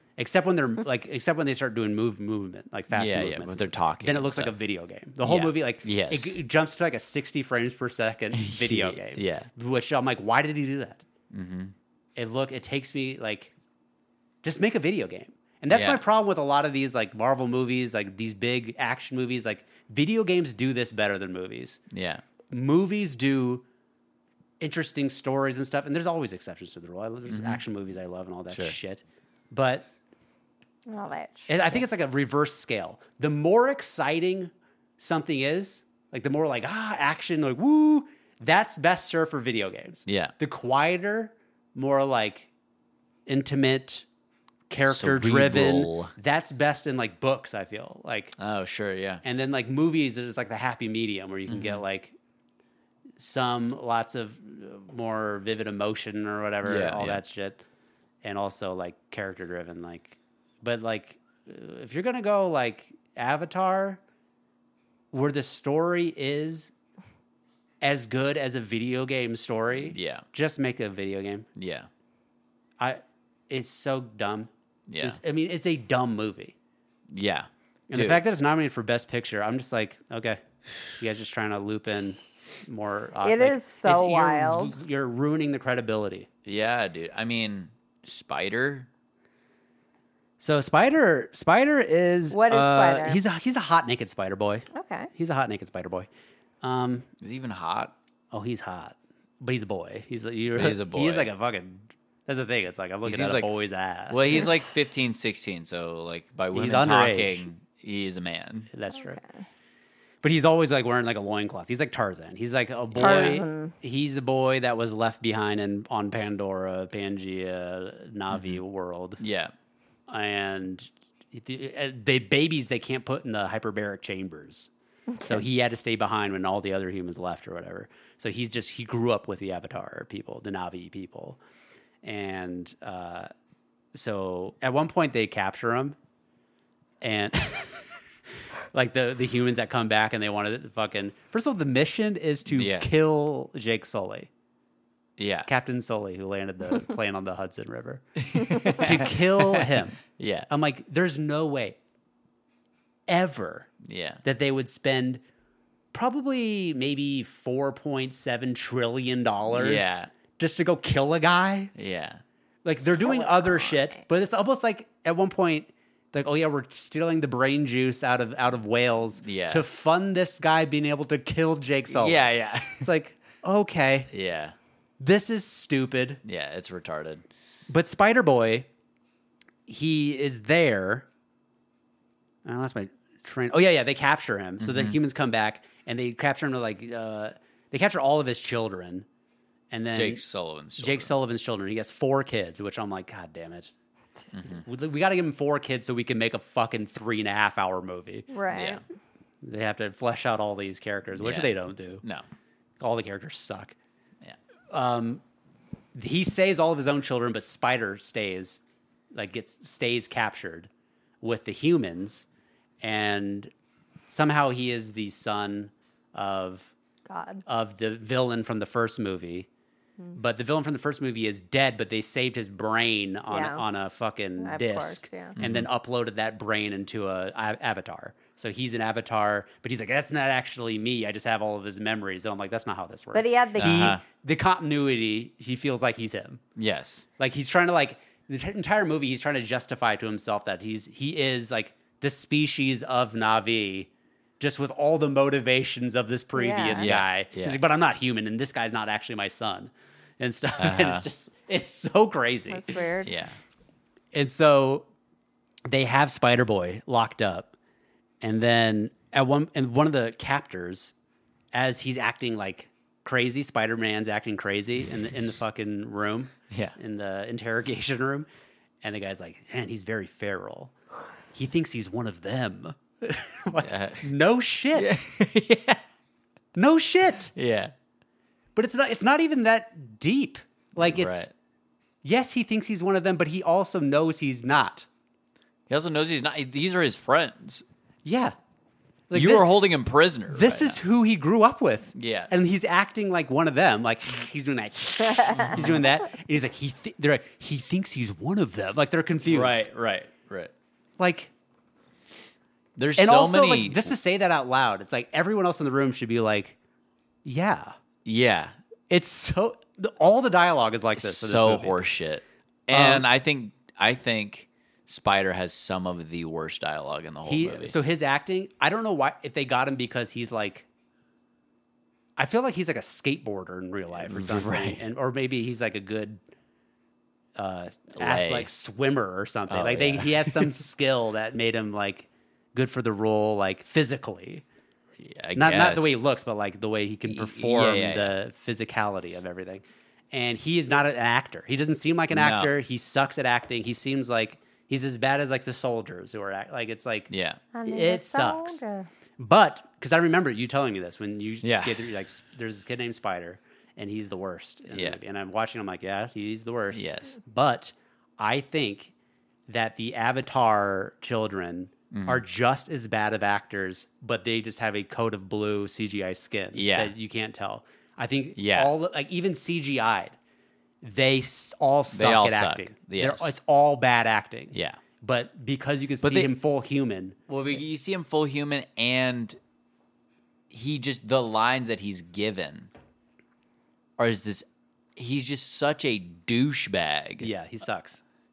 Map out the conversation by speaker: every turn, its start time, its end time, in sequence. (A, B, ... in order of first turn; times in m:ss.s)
0:00.2-0:11.0 A
0:02.9-0:04.6 B
0:05.2-0:06.4 B
0:08.3-0:09.5 B
0:11.3-0:11.7 B
0:12.2-0:13.5 A
0:14.4-0:21.8 A
0:15.7-0:16.0 B
0:21.9-0:22.2 B
0:22.5-0:23.6 A
0:24.6-0:29.9 A
0:27.3-0:27.6 B
0:28.5-0:28.8 B
0:30.9-0:31.8 C
0:31.5-0:42.5 A
0:40.1-0:40.3 B
0:43.3-0:44.0 A
0:44.7-0:48.3 A
0:44.9-0:46.1 B
0:48.4-0:49.2 B
0:49.2-0:52.1 A
0:51.5-0:51.8 B
0:53.2-0:57.6 A
0:56.6-0:57.2 B
0:58.2-1:04.0 A
1:05.1-1:06.7 A
1:07.8-1:11.5 A
1:09.8-1:10.2 B
1:11.6-1:11.9 B
1:12.8-1:16.5 A
1:14.9-1:15.2 B
1:17.1-1:18.2 B
1:17.9-1:20.4 A
1:21.0-1:26.3 A
1:23.2-1:24.7 C
1:26.4-1:28.9 B
1:30.4-1:36.1 A
1:32.3-1:33.2 C
1:34.7-1:35.1 C
1:36.6-1:37.1 A
1:37.2-1:37.9 B
1:38.3-1:44.5 A
1:40.5-1:41.3 B
1:43.0-1:43.5 B
1:44.1-1:48.7 B
1:46.5-1:47.4 A
1:48.7-1:49.2 A
1:48.9-1:49.4 C
1:50.2-1:59.2 A
1:52.9-1:53.4 B
1:53.0-1:53.7 C
1:58.3-1:58.6 B
1:59.2-1:59.5 B
2:00.1-2:04.7 A
2:05.1-2:05.4 C
2:05.2-2:11.4 A
2:12.0-2:13.3 A
2:13.9-2:16.0 A
2:17.0-2:17.8 A
2:18.7-2:24.3 A
2:22.5-2:22.9 B
2:25.2-2:25.5 B
2:25.4-2:31.8 A
2:28.2-2:30.5 B
2:33.1-2:33.7 A
2:33.8-2:34.2 B
2:34.2-2:35.2 A
2:35.9-2:41.7 A
2:39.5-2:40.1 B
2:41.7-2:42.2 B
2:42.6-2:54.1 A
2:43.0-2:44.0 C
2:49.2-2:49.6 B
2:51.9-2:52.9 B
2:54.1-2:54.5 B
2:55.0-2:56.2 A
2:56.2-2:57.2 B
2:57.7-2:58.7 A
2:59.7-3:01.0 A
3:02.4-3:09.0 A
3:04.6-3:05.0 B
3:09.7-3:10.2 A
3:09.9-3:11.1 B
3:10.8-3:13.7 A
3:14.3-3:14.7 B
3:14.6-3:18.3 A
3:18.3-3:18.8 C
3:18.5-3:18.8 B
3:19.4-3:22.0 A
3:21.2-3:22.2 B
3:22.8-3:23.8 A
3:24.7-3:25.2 A
3:25.9-3:28.6 A
3:29.1-3:30.7 A
3:31.2-3:32.2 A
3:32.8-3:33.5 A
3:34.1-3:36.7 A
3:37.1-3:37.4 C
3:37.4-3:39.5 A
3:40.1-3:56.4 A
3:43.3-3:43.6 C
3:44.4-3:45.4 C
3:45.4-3:45.7 B
3:53.1-3:53.9 C
3:53.6-3:54.0 B
3:56.6-3:57.1 B
3:57.2-4:12.8 A
4:06.3-4:06.9 C
4:06.7-4:07.6 B
4:10.6-4:11.1 B
4:12.5-4:13.1 C
4:13.0-4:13.4 B
4:14.1-4:14.8 A
4:15.7-4:17.5 A
4:18.2-4:20.9 A
4:21.5-4:28.3 A
4:26.5-4:26.8 B
4:28.8-4:30.7 A
4:31.3-4:35.0 A
4:33.6-4:34.1 B
4:34.7-4:35.8 B
4:36.5-4:37.3 A
4:37.3-4:37.7 B
4:38.6-4:41.3 A
4:40.8-4:41.3 B
4:42.0-4:44.8 A
4:45.7-4:47.6 B
4:48.0-4:48.3 A
4:49.1-4:49.6 A
4:49.1-4:50.8 B
4:50.3-4:59.6 A
4:51.9-4:52.3 B
4:55.4-4:55.9 B
4:59.2-5:00.5 B
5:01.0-5:01.3 A
5:02.8-5:03.9 B
5:03.0-5:06.6 A
5:07.2-5:07.7 A
5:08.0-5:08.6 B
5:08.9-5:11.8 A
5:11.0-5:17.8 B
5:12.7-5:13.0 A
5:17.2-5:20.6 A
5:22.2-5:26.2 A
5:24.0-5:24.8 B
5:27.4-5:34.4 A
5:28.0-5:28.5 B
5:29.5-5:30.6 B
5:35.0-5:35.9 B
5:35.4-5:47.1 A
5:37.1-5:38.1 B
5:42.1-5:42.5 B
5:47.1-5:47.4 B
5:47.5-5:48.9 C
5:47.6-5:48.6 A
5:49.2-5:58.9 A
5:51.4-5:51.9 B
5:54.7-5:55.0 B
5:56.7-5:57.2 B
5:59.5-6:10.1 A
6:01.9-6:02.2 B
6:06.5-6:06.9 B
6:08.4-6:08.7 B
6:10.8-6:17.2 A
6:11.9-6:13.3 B
6:14.5-6:14.8 B
6:16.0-6:16.3 B
6:17.3-6:19.4 B
6:20.5-6:22.7 B
6:24.0-6:27.3 B
6:27.2-6:28.0 A